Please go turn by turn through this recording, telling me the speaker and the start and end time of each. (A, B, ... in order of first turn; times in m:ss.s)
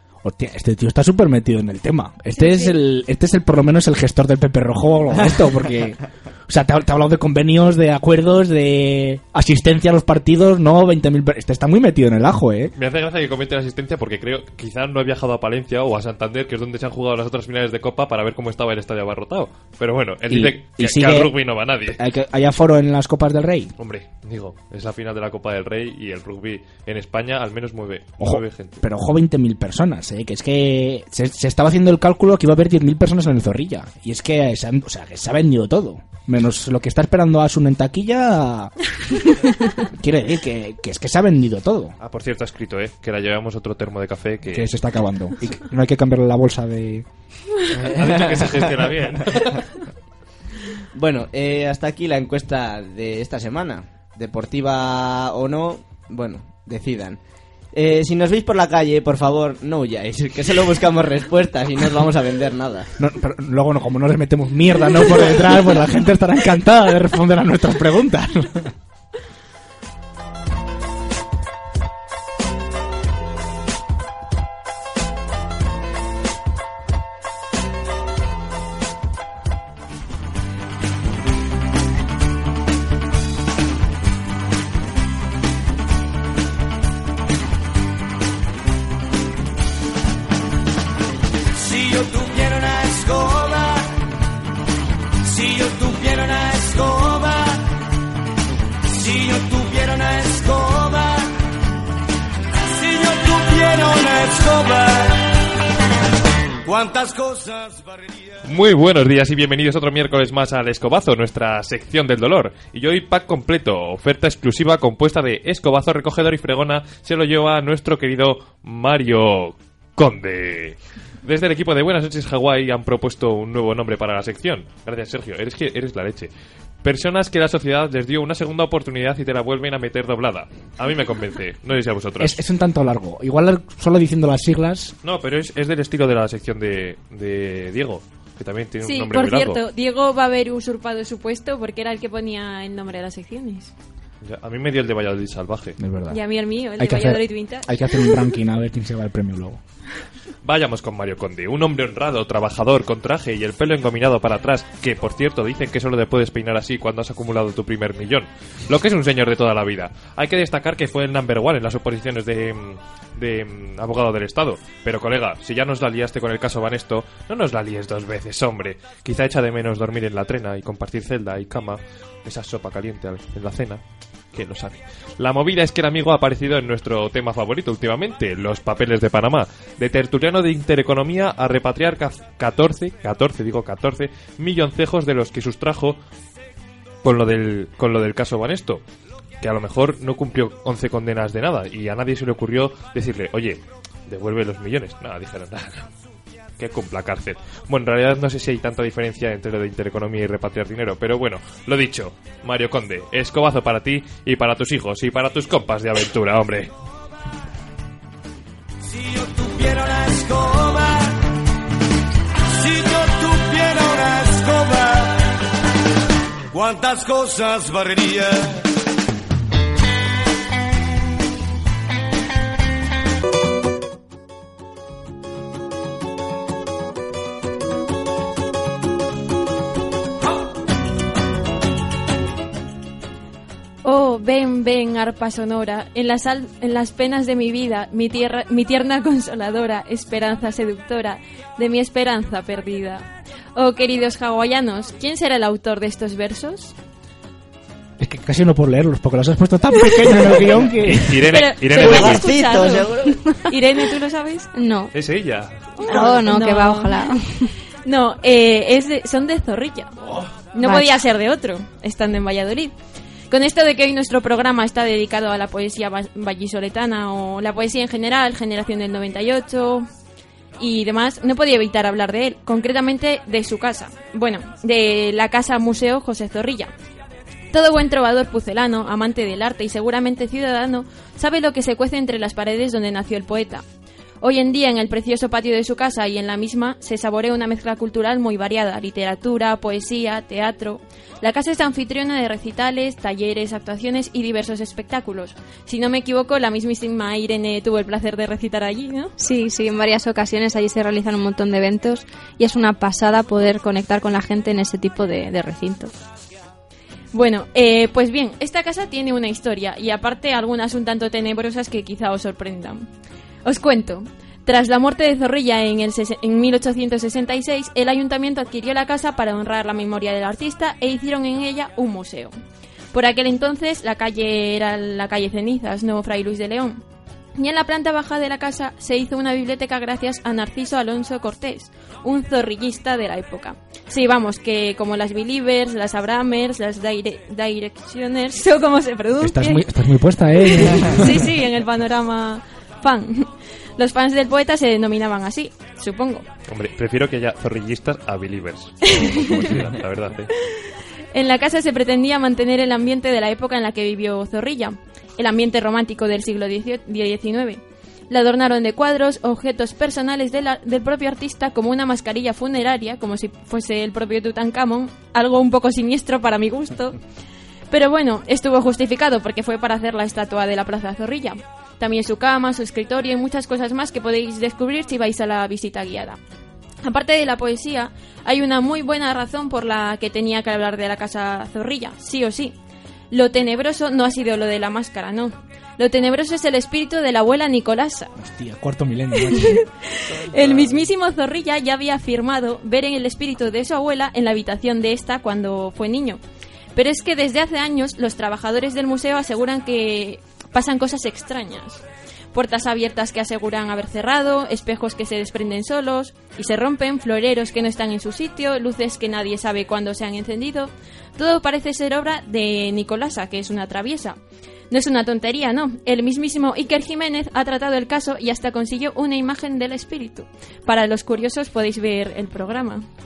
0:00.2-0:12.7 A
0:02.4-0:02.7 B
0:12.8-0:22.0 C
0:20.3-0:23.7 A
0:23.8-0:28.8 C
0:28.2-0:38.7 A
0:39.8-0:42.0 A
0:42.0-0:44.7 C
0:44.4-0:47.0 A
0:47.8-0:49.8 C
0:47.8-0:48.7 D
0:50.9-0:57.2 D
0:57.7-1:02.9 D
1:03.0-1:08.7 A
1:31.5-1:33.9 E
1:35.2-1:37.6 E
1:38.9-1:41.3 E
1:42.7-1:45.3 E
1:46.6-1:48.3 E
1:48.4-2:06.3 C
2:06.8-2:12.4 C
2:12.2-2:14.9 A
2:15.0-2:19.6 C
2:18.8-2:23.7 B
2:24.2-2:25.8 C
2:25.8-2:26.2 A
2:26.1-2:28.1 B
2:26.8-2:29.6 A
2:30.4-3:06.0 C
3:07.0-3:08.8 C
3:09.4-3:15.9 C
3:16.6-3:26.7 C
3:28.8-3:31.2 E
3:32.5-3:35.2 E
3:36.5-3:38.6 E
3:53.8-4:06.7 B
4:08.0-4:11.2 A
4:10.9-4:12.3 C
4:11.2-4:14.5 B
4:11.7-4:13.2 D
4:14.5-4:14.9 F
4:14.9-4:15.6 C
4:15.8-4:17.1 B
4:15.8-4:17.5 F
4:17.8-4:19.9 B
4:20.5-4:22.7 B
4:20.6-4:21.0 F
4:23.3-4:29.8 B
4:30.6-4:36.7 B
4:37.5-4:43.6 B
4:44.2-4:59.1 B
4:59.2-5:05.9 F
5:07.1-5:12.9 B
5:13.4-5:22.3 B
5:22.9-5:26.8 B
5:27.4-5:39.6 B
5:39.2-5:41.2 A
5:40.4-5:46.2 B
5:46.5-5:50.3 C
5:48.9-5:49.4 B
5:51.1-6:07.0 B
6:07.7-6:16.2 B
6:16.8-6:22.6 B
6:23.1-6:28.1 B
6:28.2-6:29.6 A
6:29.9-6:36.2 B
6:30.3-6:30.8 A
6:36.7-6:41.8 B
6:42.3-6:54.2 B
6:54.7-7:02.8 B